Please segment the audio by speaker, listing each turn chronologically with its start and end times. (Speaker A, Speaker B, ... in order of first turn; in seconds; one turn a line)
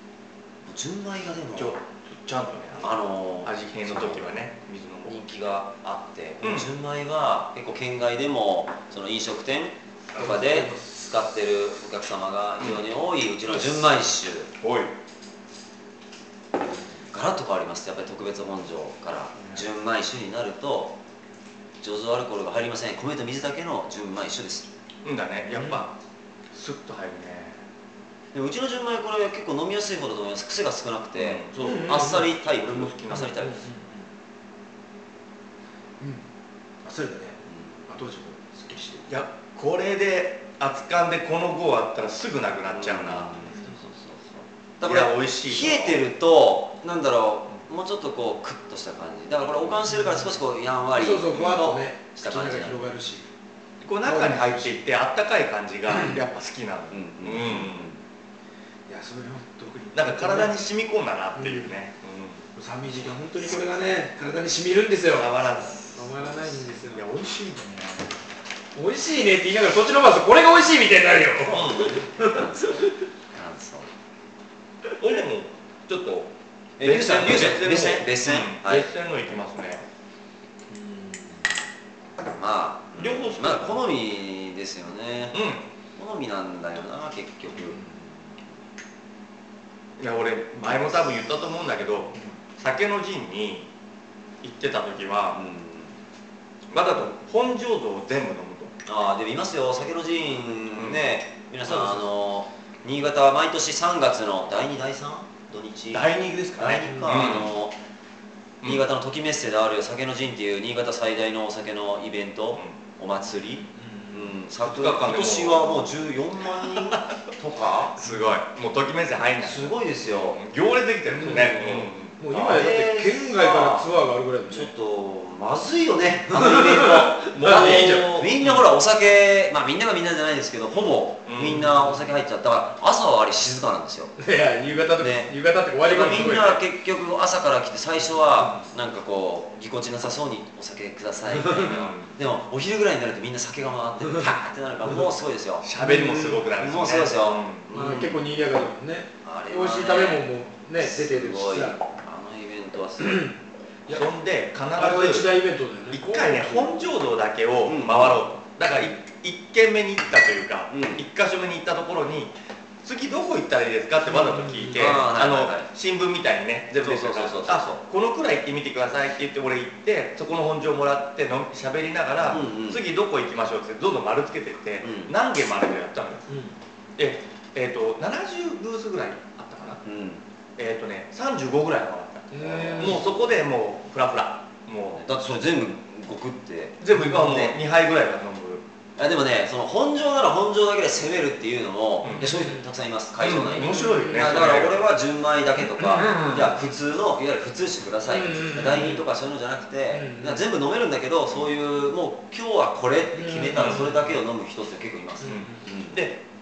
Speaker A: 0.7-1.8
Speaker B: 1.5-5.2
Speaker A: 2.8-4.4
Speaker A: 5.1-14.5
Speaker B: 6.4-6.7
Speaker C: 10.2-11.0
Speaker C: 13.5-13.8
Speaker B: 14.6-14.9
Speaker A: 17.1-21.0
Speaker B: 19.4-19.6
Speaker A: 21.8-24.7
Speaker B: 25.0-25.9
Speaker C: 25.5-25.8
Speaker B: 26.5-27.6
Speaker A: 28.3-33.6
Speaker B: 31.1-33.4
Speaker C: 31.6-32.3
Speaker C: 33.1-34.1
Speaker C: 36.8-39.1
Speaker A: 37.5-37.9
Speaker B: 39.1-43.4
Speaker A: 42.7-52.9
Speaker C: 43.5-43.8
Speaker B: 44.8-46.0
Speaker C: 49.9-50.2
Speaker C: 51.0-53.3
Speaker B: 51.3-51.7
Speaker B: 53.8-58.0
Speaker C: 54.0-54.8
Speaker C: 55.9-56.2
Speaker A: 56.9-58.0
Speaker C: 58.9-60.6
Speaker B: 59.9-62.5
Speaker C: 61.4-61.7
Speaker C: 62.5-67.1
Speaker B: 65.1-66.3
Speaker B: 66.9-68.2
Speaker C: 68.8-73.0
Speaker B: 71.5-72.0
Speaker A: 71.7-73.9
Speaker B: 75.0-79.8
Speaker A: 76.8-78.9
Speaker C: 80.7-81.5
Speaker A: 82.4-85.4
Speaker B: 83.0-83.8
Speaker B: 85.3-85.7
Speaker A: 85.9-87.8
Speaker C: 87.5-88.3
Speaker B: 90.0-93.7
Speaker B: 94.4-95.4
Speaker A: 95.3-96.0
Speaker B: 96.7-98.8
Speaker A: 98.8-107.8
Speaker B: 100.7-101.1
Speaker C: 101.7-102.0
Speaker B: 105.9-107.5
Speaker C: 106.8-107.3
Speaker A: 108.7-118.0
Speaker C: 113.8-114.3
Speaker B: 114.6-115.9
Speaker B: 116.6-117.0
Speaker B: 118.0-122.1
Speaker C: 118.0-118.3
Speaker A: 119.4-120.4
Speaker C: 121.1-124.7
Speaker A: 121.4-123.9
Speaker A: 124.5-134.1
Speaker C: 126.3-128.1
Speaker B: 127.3-128.7
Speaker B: 131.2-131.7
Speaker C: 131.5-132.1
Speaker C: 134.2-136.6
Speaker A: 135.0-145.7
Speaker C: 141.3-141.8
Speaker B: 141.6-142.1
Speaker B: 145.6-147.8
Speaker C: 145.8-146.5
Speaker A: 146.6-148.2
Speaker C: 147.7-151.8
Speaker A: 149.2-150.2
Speaker A: 150.8-153.3
Speaker C: 153.0-154.1
Speaker B: 153.9-155.3
Speaker C: 154.7-156.9
Speaker B: 155.9-162.3
Speaker A: 157.7-158.2
Speaker A: 160.7-161.1
Speaker B: 162.8-176.2
Speaker C: 164.1-165.0
Speaker A: 164.7-165.7
Speaker A: 166.8-167.8
Speaker A: 172.3-172.8
Speaker A: 174.8-175.2
Speaker C: 176.3-176.6
Speaker B: 177.0-179.8
Speaker A: 179.8-180.2
Speaker B: 180.6-185.0
Speaker C: 182.3-183.0
Speaker A: 182.4-183.3
Speaker A: 184.9-187.5
Speaker B: 186.8-188.6
Speaker A: 189.0-206.0
Speaker B: 192.0-192.3
Speaker C: 192.2-192.7
Speaker B: 193.2-194.8
Speaker C: 193.6-194.3
Speaker B: 195.9-196.5
Speaker C: 198.1-199.0
Speaker C: 199.9-200.4
Speaker C: 203.1-204.1
Speaker B: 203.5-203.9
Speaker C: 205.2-205.7
Speaker B: 205.3-206.2